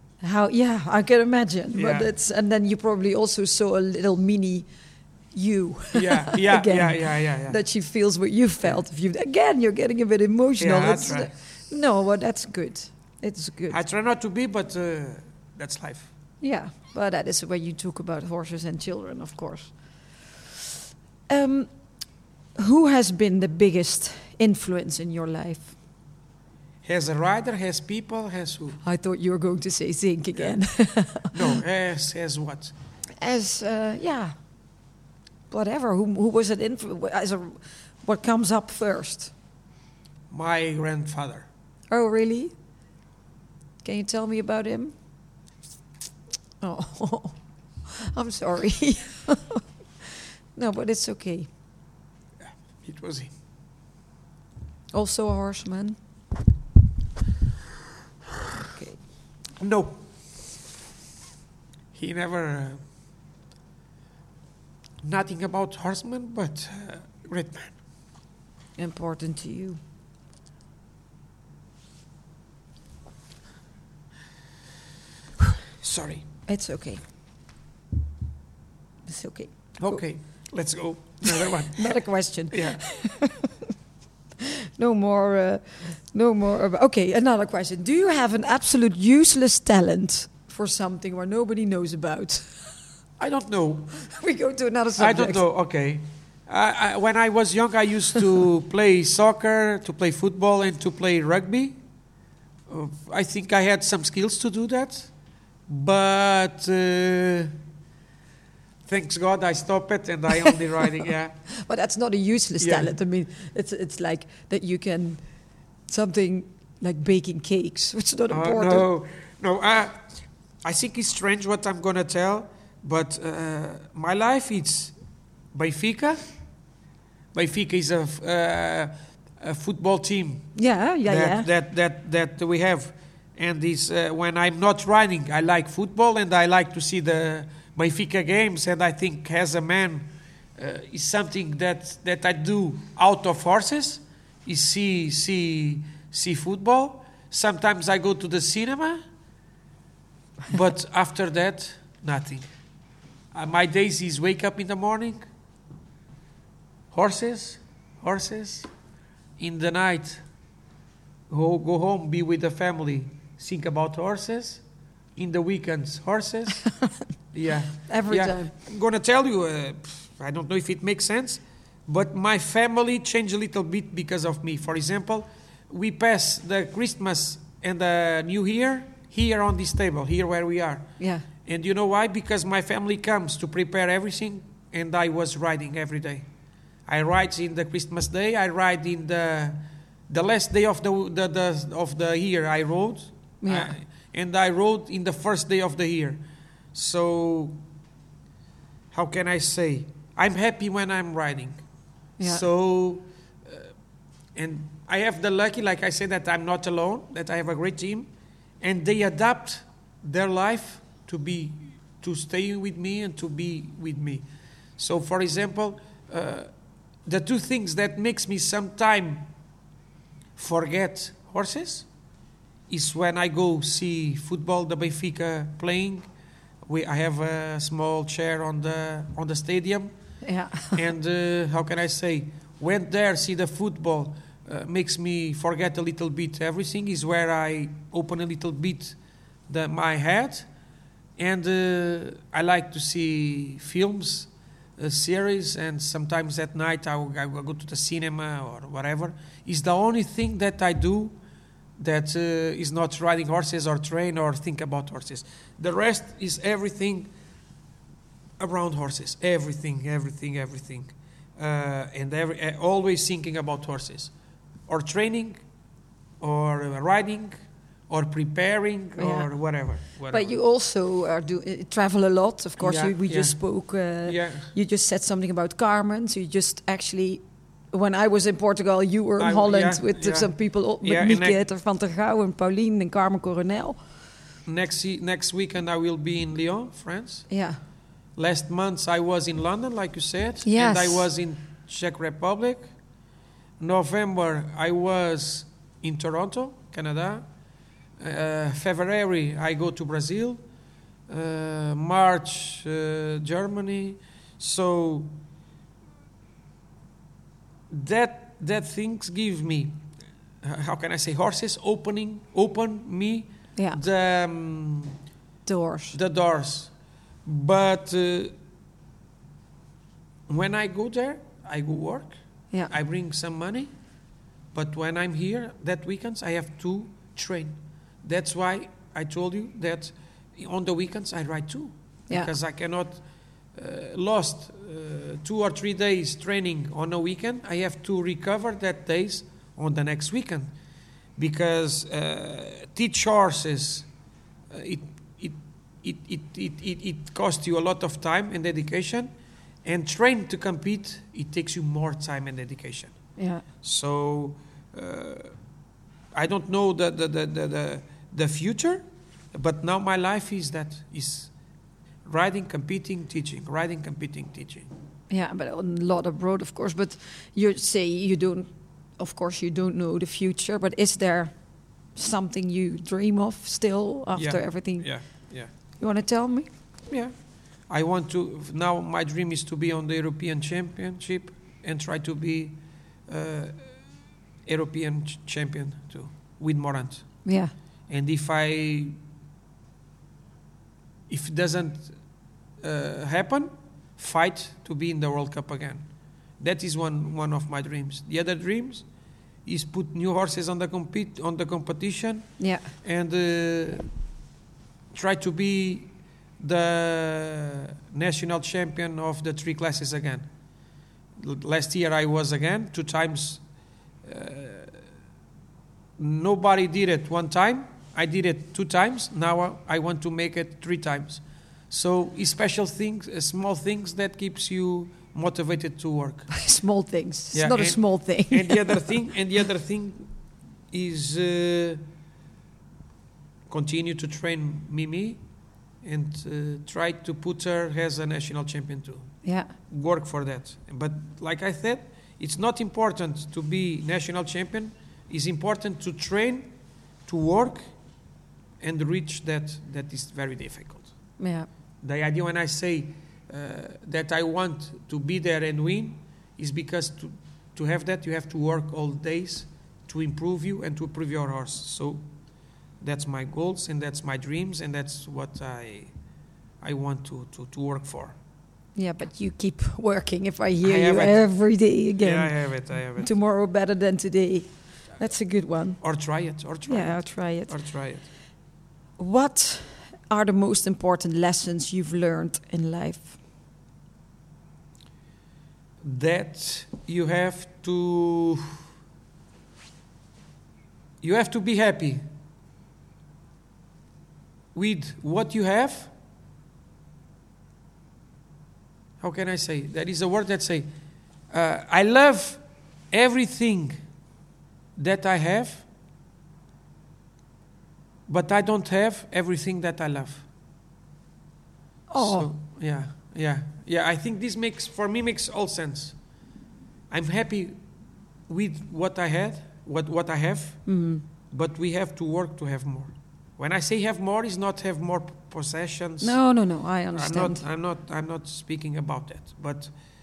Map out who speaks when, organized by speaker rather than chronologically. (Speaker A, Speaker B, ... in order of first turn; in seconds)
Speaker A: 0.2-4.7, 5.3-13.8, 16.4-20.3, 21.3-21.7, 22.6-25.7, 28.8-31.6, 33.2-34.4, 35.5-39.3, 41.9-42.5, 43.8-44.9, 46.6-47.4, 48.1-49.6, 50.5-51.5, 54.9-56.0, 58.7-59.0, 68.8-69.8, 76.5-77.1, 79.1-80.5, 81.3-83.5, 84.8-92.8, 94.0-95.4, 111.5-118.9, 130.6-131.5, 167.9-168.5, 181.0-181.2, 193.4-193.7, 230.2-230.8, 269.0-283.8, 287.3-287.6, 290.4-291.1, 315.4-316.0, 353.2-353.4, 365.1-376.5, 387.2-387.5, 402.4-402.7, 426.3-428.9, 439.2-439.5, 451.2-451.5, 468.8-475.8, 476.7-477.5, 479.0-483.1, 511.9-512.3, 520.7-521.0, 526.0-527.4
Speaker B: 1.8-2.1, 5.9-7.6, 10.6-11.4, 13.7-16.1, 26.8-28.8, 30.4-32.8, 40.3-41.5, 52.4-53.3, 59.6-60.6, 61.9-62.9, 65.0-67.8, 75.8-76.3, 79.8-82.8, 93.2-94.0, 95.0-101.8, 102.7-105.1, 105.7-107.5, 108.9-111.5, 112.6-112.9, 118.3-125.0, 125.5-126.3, 127.3-140.1, 140.6-149.0, 150.5-152.5, 153.3-155.2, 156.9-158.7, 159.4-160.2, 161.3-164.6, 165.2-180.9, 181.4-186.3, 186.9-196.2, 196.7-197.6, 198.9-201.6, 202.2-203.7, 204.3-208.1, 208.6-214.2, 214.8-216.5, 217.1-219.3, 220.4-221.9, 222.7-226.1, 226.7-229.9, 230.7-239.0, 239.5-240.5, 241.2-251.2, 251.8-257.1, 258.4-264.1, 264.7-265.4, 266.2-267.3, 267.9-270.4, 272.6-274.5, 279.2-281.4, 284.4-287.4, 288.2-292.7, 293.6-297.3, 298.0-300.4, 301.1-305.1, 307.7-309.8, 310.4-315.0, 315.9-316.7, 317.2-318.3, 320.3-323.7, 324.5-340.5, 341.2-343.9, 344.5-349.1, 349.6-355.4, 356.1-361.3, 362.1-364.7, 374.1-375.5, 376.9-383.9, 384.4-387.3, 387.9-389.0, 391.1-392.0, 392.6-398.9, 399.4-403.9, 404.9-410.3, 411.2-413.4, 414.0-414.8, 416.0-426.4, 427.3-430.1, 430.7-431.8, 433.5-435.2, 435.8-446.5, 447.1-447.7, 448.6-451.1, 451.8-462.1, 462.8-465.9, 466.6-468.1, 470.6-471.3, 472.0-473.1, 475.8-478.1, 485.8-488.5, 491.0-492.0, 494.5-495.9, 499.0-500.7, 501.3-503.8, 504.8-505.7, 508.1-510.3, 512.0-516.0, 516.9-517.6, 518.3-526.2, 527.0-529.7